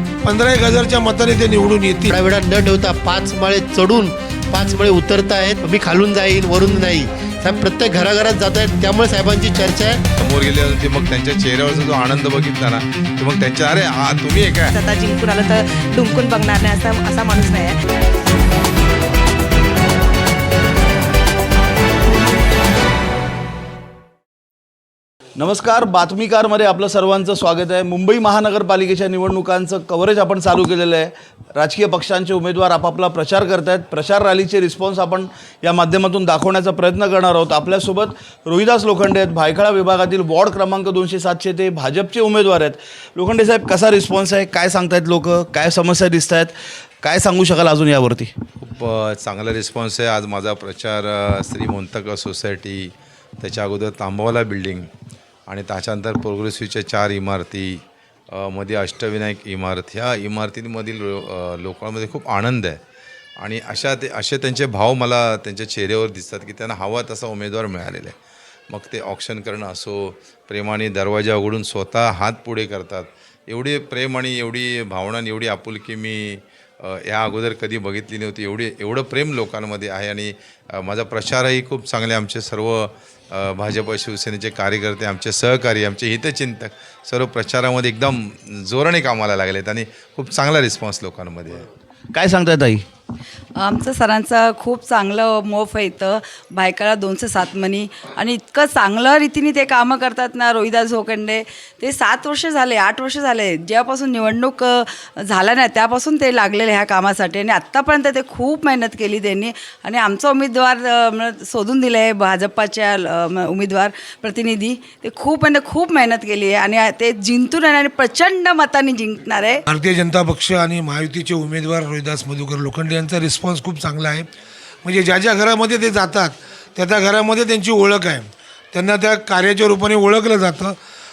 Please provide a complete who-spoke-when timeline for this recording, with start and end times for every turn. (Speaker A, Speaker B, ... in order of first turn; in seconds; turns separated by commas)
Speaker A: 0.2-2.1, Speaker B: 2.1-10.0, Speaker C: 10.2-14.7, Speaker D: 14.7-17.8, Speaker E: 25.4-48.3, Speaker C: 48.6-54.9, Speaker C: 55.5-57.8, Speaker C: 58.3-62.8, Speaker C: 63.4-68.2, Speaker C: 68.7-91.7, Speaker E: 92.1-92.8, Speaker F: 93.6-119.6, Speaker A: 119.7-124.3, Speaker A: 124.8-130.8